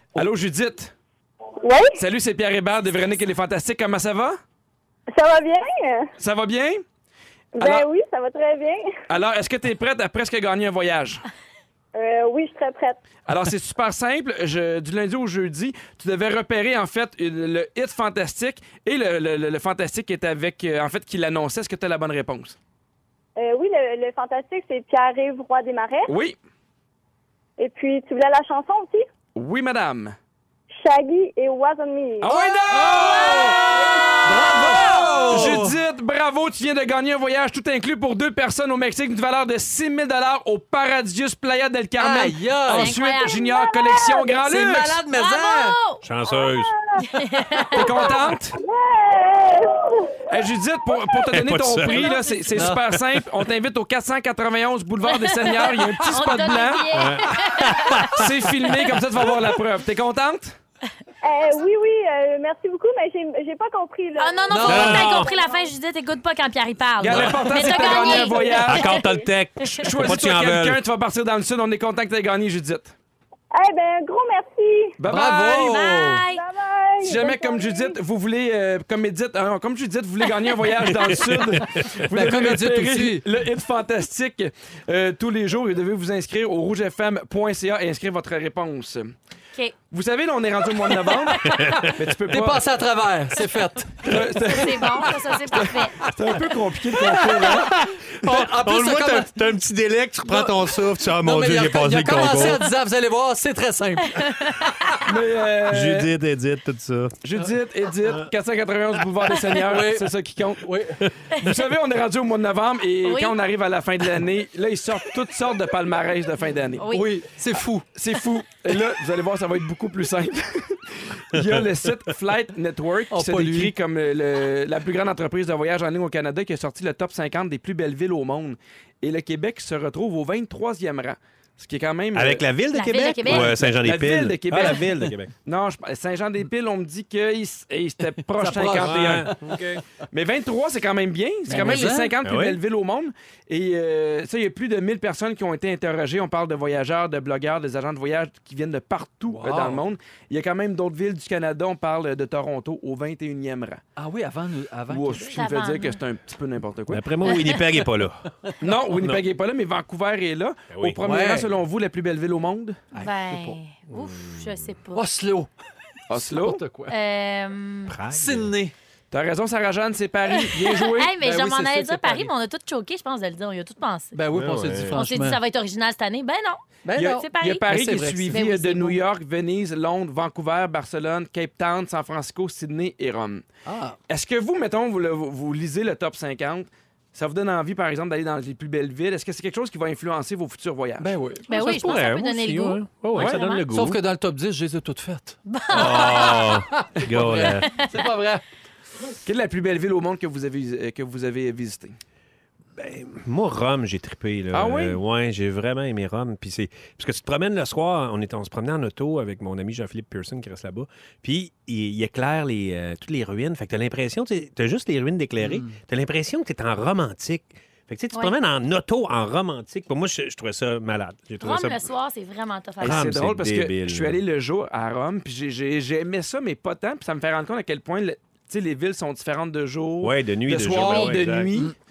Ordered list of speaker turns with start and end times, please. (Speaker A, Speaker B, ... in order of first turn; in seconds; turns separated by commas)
Speaker A: 0.1-0.9, Speaker B: 1.6-2.0, Speaker A: 2.0-4.4, Speaker B: 5.1-6.1, Speaker A: 6.2-6.8, Speaker B: 7.5-9.0, Speaker A: 7.6-7.9, Speaker A: 9.1-11.2, Speaker B: 11.9-13.0, Speaker A: 13.3-22.6, Speaker B: 23.4-26.1, Speaker A: 26.1-26.4, Speaker B: 27.6-29.1, Speaker A: 29.4-30.2, Speaker B: 30.7-32.4, Speaker A: 32.2-45.0, Speaker C: 32.7-33.6, Speaker D: 32.9-33.6, Speaker B: 33.6-34.3, Speaker C: 34.2-35.8, Speaker D: 34.5-35.5, Speaker C: 42.0-43.0, Speaker D: 42.7-43.4, Speaker B: 43.3-44.5, Speaker C: 44.4-45.8, Speaker D: 45.1-46.0, Speaker E: 46.0-46.7, Speaker B: 46.3-50.3, Speaker D: 47.0-48.1, Speaker A: 47.7-48.5, Speaker A: 50.3-57.1, Speaker E: 51.3-52.1, Speaker D: 51.9-52.7, Speaker C: 52.5-52.8, Speaker E: 52.9-53.2, Speaker D: 55.0-58.1, Speaker E: 56.9-58.3, Speaker A: 58.1-60.6, Speaker B: 61.2-65.7, Speaker D: 64.2-69.0, Speaker C: 64.5-65.1, Speaker E: 64.7-65.3, Speaker A: 67.0-68.9, Speaker E: 67.1-67.5, Speaker B: 67.6-69.3, Speaker E: 68.6-70.8, Speaker A: 69.8-72.9, Speaker B: 73.5-75.0, Speaker A: 75.0-75.8, Speaker C: 75.1-76.2, Speaker D: 75.7-76.4, Speaker B: 76.3-78.0, Speaker A: 77.0-89.1, Speaker E: 80.9-82.0, Speaker C: 82.0-83.2, Speaker A: 89.9-92.7, Speaker E: 91.4-92.0, Speaker C: 92.3-94.2, Speaker A: 94.0-97.7, Speaker D: 94.4-96.1, Speaker C: 97.0-99.3, Speaker E: 97.3-102.7, Speaker C: 100.2-100.6, Speaker C: 101.2-105.0, Speaker D: 104.1-104.7, Speaker A: 105.0-106.1, Speaker E: 105.7-107.2, Speaker A: 107.2-110.7, Speaker C: 109.7-111.0, Speaker A: 111.3-116.9, Speaker D: 113.0-113.4, Speaker D: 116.8-117.1, Speaker C: 116.9-117.9, Speaker A: 118.0-132.4, Speaker E: 121.3-121.6, Speaker C: 123.1-123.7, Speaker E: 132.1-135.3, Speaker D: 132.7-133.6, Speaker A: 133.3-139.5, Speaker C: 138.3-139.6, Speaker E: 138.8-139.8, Speaker A: 140.1-153.8, Speaker C: 141.5-142.2, Speaker D: 141.5-141.9, Speaker E: 142.2-142.6, Speaker C: 149.3-149.8, Speaker C: 154.0-155.4, Speaker A: 154.9-157.1, Speaker D: 155.3-156.0, Speaker E: 156.9-158.3, Speaker D: 157.2-157.6, Speaker A: 158.6-162.8, Speaker E: 159.0-159.2, Speaker E: 160.7-161.0, Speaker C: 161.0-161.5, Speaker C: 162.9-163.6, Speaker D: 163.0-165.0, Speaker E: 163.9-164.7, Speaker C: 164.9-165.5, Speaker A: 166.1-166.6, Speaker C: 166.2-166.9, Speaker D: 166.9-168.0, Speaker E: 167.9-168.5, Speaker C: 168.1-168.7, Speaker A: 169.1-171.1, Speaker D: 170.3-174.2, Speaker C: 171.2-172.3, Speaker C: 174.1-175.4, Speaker E: 174.3-175.0, Speaker D: 174.9-177.7, Speaker C: 176.8-178.5, Speaker A: 177.0-183.4, Speaker D: 178.3-179.0, Speaker C: 183.7-184.0, Speaker A: 184.1-191.1, Speaker C: 191.0-191.5, Speaker D: 191.5-193.7, Speaker E: 191.5-194.0, Speaker A: 193.2-193.4, Speaker C: 193.7-198.4, Speaker D: 195.5-196.6, Speaker E: 195.7-197.7, Speaker D: 197.7-198.0, Speaker A: 199.2-202.0, Speaker E: 202.8-221.9, Speaker A: 204.5-205.0, Speaker C: 215.4-215.8, Speaker D: 221.4-223.1, Speaker E: 222.8-224.2, Speaker A: 222.8-231.7, Speaker E: 230.0-231.5, Speaker D: 230.8-231.2